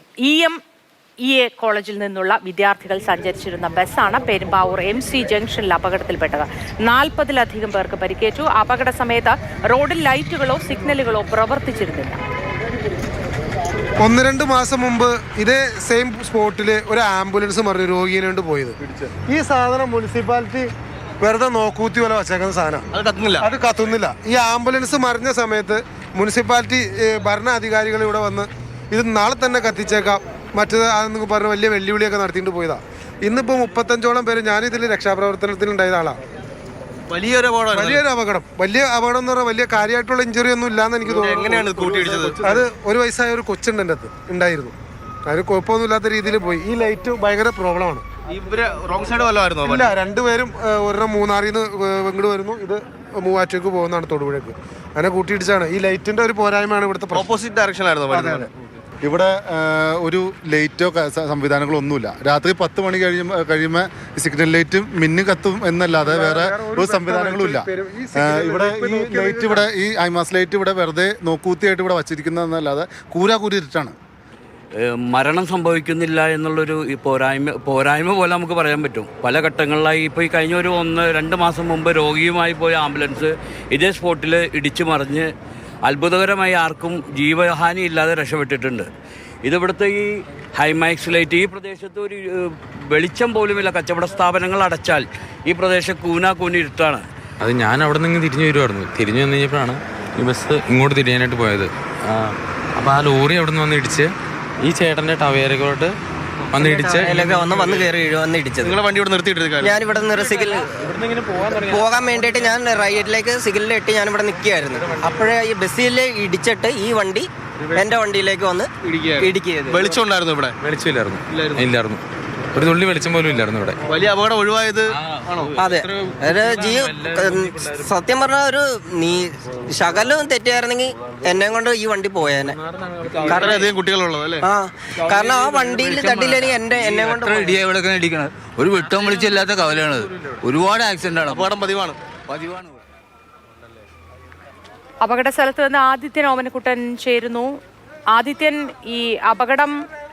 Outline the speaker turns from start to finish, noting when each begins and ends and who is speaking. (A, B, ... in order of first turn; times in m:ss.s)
0:00.2-0:00.6 A
0:01.2-0:12.2 A
0:14.0-0:20.7 B
0:21.2-0:22.9 B
0:22.9-0:23.5 C
0:23.4-0:36.2 B
0:37.1-0:38.0 C
0:37.7-0:44.7 B
0:41.0-0:42.6 C
0:45.2-0:48.0 B
0:48.3-0:49.9 C
0:49.6-0:57.3 B
0:57.1-0:58.5 C
0:58.1-0:58.4 D
0:59.0-1:13.9 D
1:06.0-1:09.6 B
1:14.8-1:25.3 E
1:25.8-1:28.9 E
1:29.4-1:37.1 E
1:37.4-1:44.1 F
1:44.6-1:45.9 F
1:46.5-1:47.1 F
1:46.8-1:48.8 G
1:47.5-1:47.9 C
1:48.6-1:49.8 C
1:49.6-1:50.7 G
1:51.4-1:59.9 G
1:58.8-2:00.6 C
2:00.6-2:02.0 F
2:01.3-2:01.7 C
2:02.5-2:03.8 F
2:03.9-2:05.5 C
2:05.6-2:12.6 G
2:13.2-2:14.5 C
2:13.2-2:13.5 G
2:14.4-2:17.6 G
2:15.9-2:16.4 C
2:17.1-2:21.6 H
2:21.3-2:22.0 C
2:22.3-2:22.8 H
2:25.0-2:27.5 A
2:28.1-2:29.7 A